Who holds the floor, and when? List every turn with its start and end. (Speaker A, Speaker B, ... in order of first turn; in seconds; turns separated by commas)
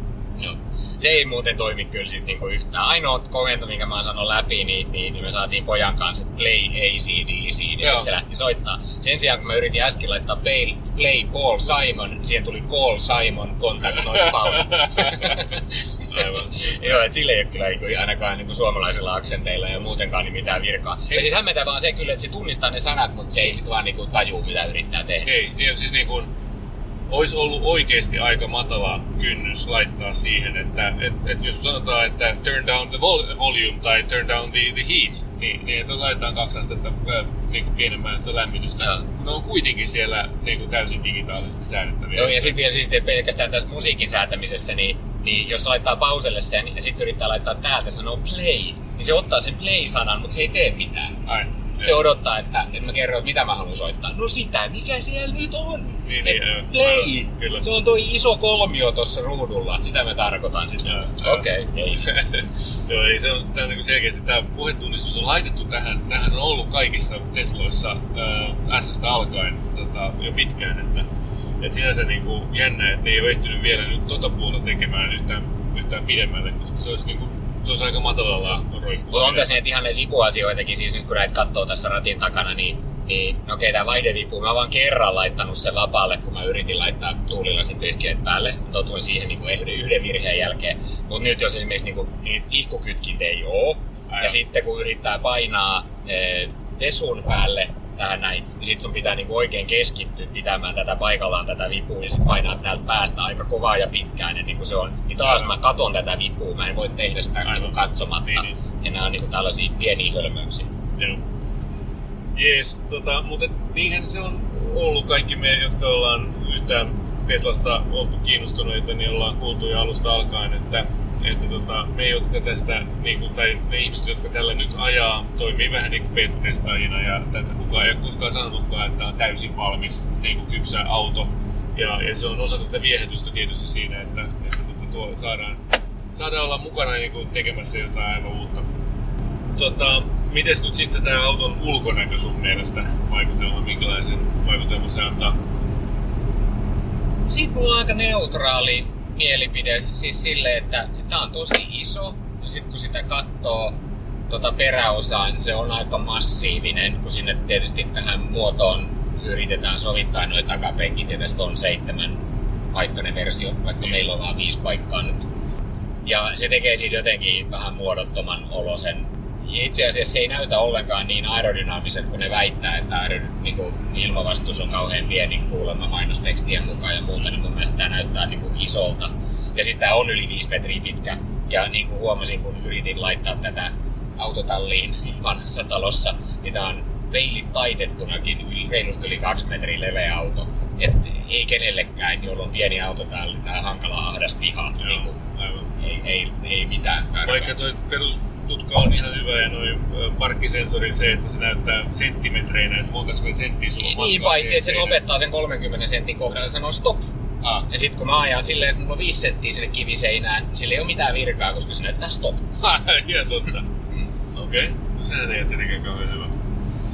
Speaker A: 0.3-15.6, Speaker B: 7.8-8.1, Speaker B: 14.2-15.4, Speaker B: 16.0-17.0, Speaker A: 16.6-25.3, Speaker B: 21.1-21.4, Speaker B: 25.2-26.3, Speaker B: 27.1-42.6, Speaker A: 42.1-51.1, Speaker B: 51.2-52.0, Speaker A: 51.8-62.1, Speaker B: 56.0-57.7, Speaker B: 60.8-71.0, Speaker B: 71.6-79.6, Speaker A: 79.1-110.7, Speaker B: 94.1-94.3, Speaker B: 105.2-105.6, Speaker B: 107.4-108.5, Speaker B: 112.3-135.6, Speaker B: 136.1-138.7, Speaker B: 139.6-145.3, Speaker A: 147.3-165.2, Speaker A: 166.0-195.1, Speaker B: 194.8-195.7, Speaker A: 195.8-197.5, Speaker B: 197.2-205.0, Speaker A: 203.8-207.1, Speaker B: 207.4-207.7, Speaker A: 207.7-212.4, Speaker B: 212.6-213.7, Speaker B: 214.3-216.3